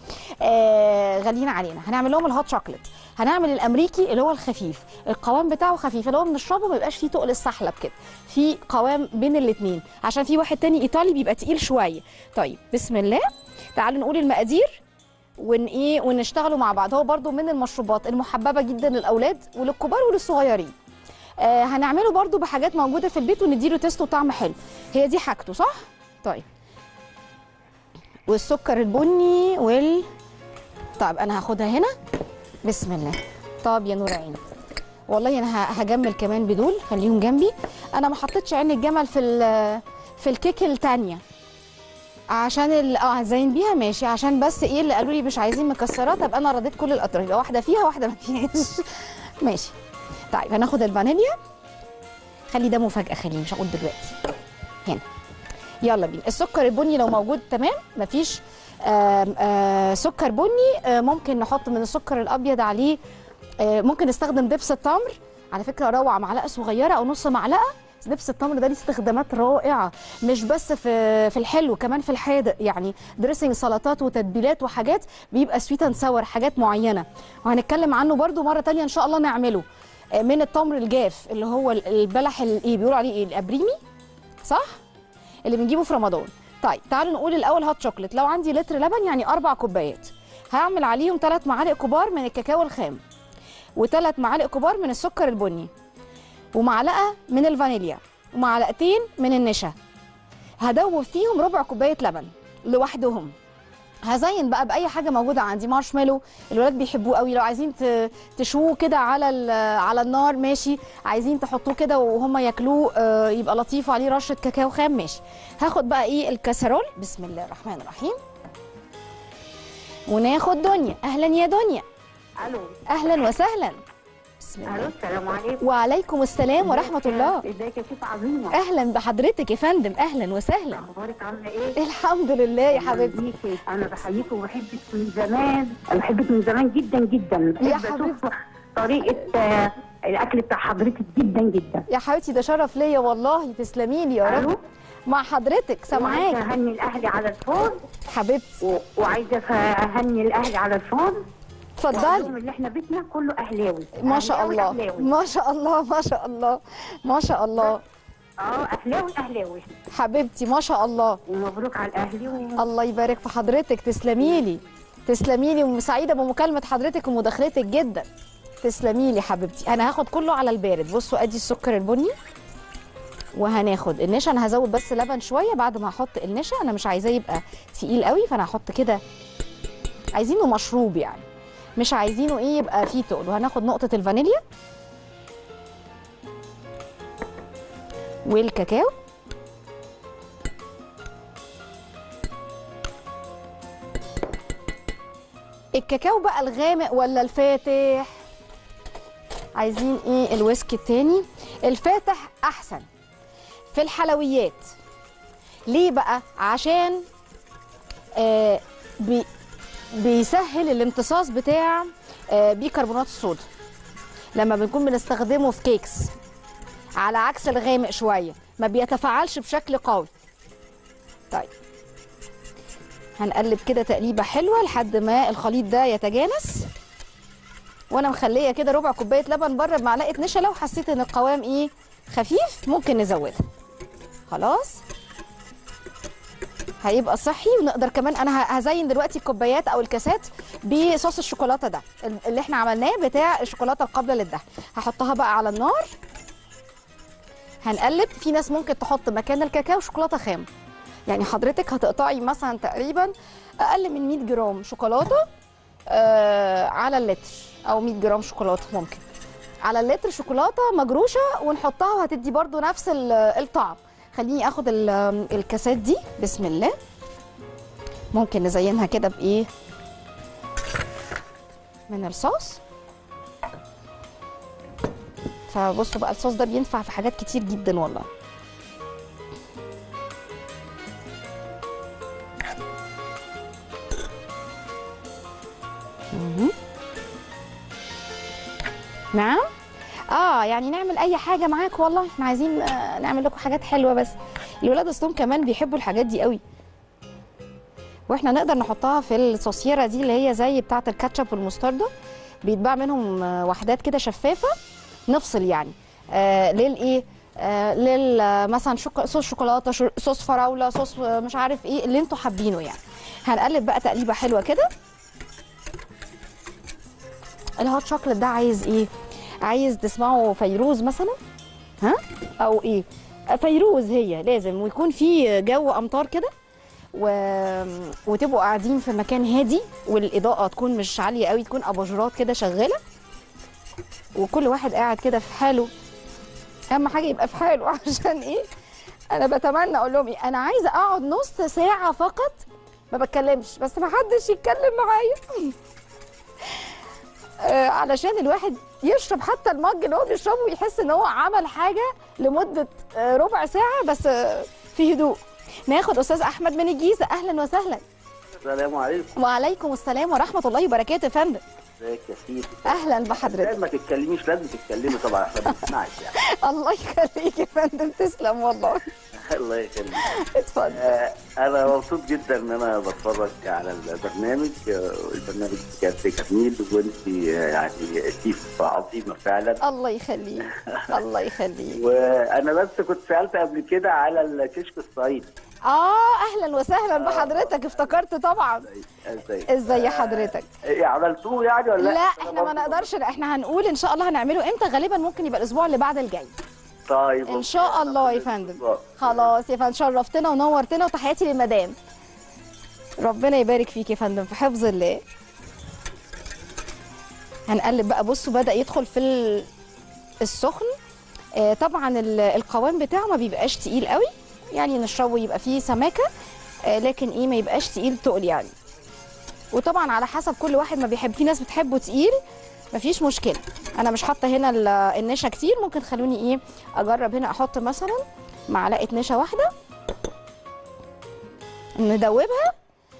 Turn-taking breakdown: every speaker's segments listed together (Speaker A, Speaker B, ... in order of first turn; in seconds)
Speaker A: 0.4-14.8, 15.4-20.7, 21.4-26.4, 28.3-30.1, 31.0-31.9, 32.6-34.4, 35.1-41.2, 42.3-49.7, 50.3-51.4, 52.5-54.2, 55.8-63.0, 63.6-83.8, 84.4-84.8, 85.4-93.0, 93.8-95.7, 96.5-99.7, 100.6-103.3, 104.0-118.2, 120.1-121.8, 122.9-123.8, 124.4-124.9, 125.6-127.4, 128.5-130.9, 131.8-133.2, 137.6-138.2, 141.9-144.5, 145.1-146.4, 148.1-148.6, 151.8-152.3, 154.0-157.8, 159.9-161.2, 162.6-168.1, 168.6-172.1, 173.3-179.0, 180.1-181.2, 181.8-184.4, 188.2-188.9, 195.7-198.2, 199.5-202.8, 203.7-204.7, 205.7-207.0, 208.2-209.3, 209.9-213.4, 214.3-216.1, 217.0-220.1, 223.2-226.7, 227.9-233.4, 234.3-234.8, 236.8-245.9, 247.6-250.5, 251.1-255.2, 255.9-259.0, 259.6-266.8, 268.1-269.5, 271.9-272.6, 275.5-278.1, 286.1-286.5, 289.1-289.5, 290.1-296.4, 298.1-301.9, 302.4-304.5, 305.1-314.7, 317.6-318.9, 319.4-321.2, 321.8-326.3, 326.9-332.8, 334.1-335.7, 336.7-338.5, 339.1-345.5, 347.4-357.8, 359.1-361.4, 362.6-363.6, 366.1-368.9, 370.0-370.9, 379.6-381.8, 385.7-388.7, 389.5-390.5, 391.8-396.3, 397.2-401.7, 403.0-405.0, 407.5-409.5, 410.2-410.7, 411.3-416.1, 416.6-418.5, 419.5-422.1, 422.7-429.5, 431.8-432.5
Speaker B: 122.4-122.8, 124.6-125.6, 126.6-128.6, 130.7-131.8, 132.7-141.8, 144.2-144.6, 145.9-147.8, 148.6-151.2, 151.9-155.1, 158.4-159.7, 161.3-162.6
Speaker C: 358.4-359.1, 361.8-366.1, 369.2-370.0, 370.7-379.6, 380.5-380.9, 381.7-385.3, 386.9-387.9, 388.8-392.9, 396.9-399.3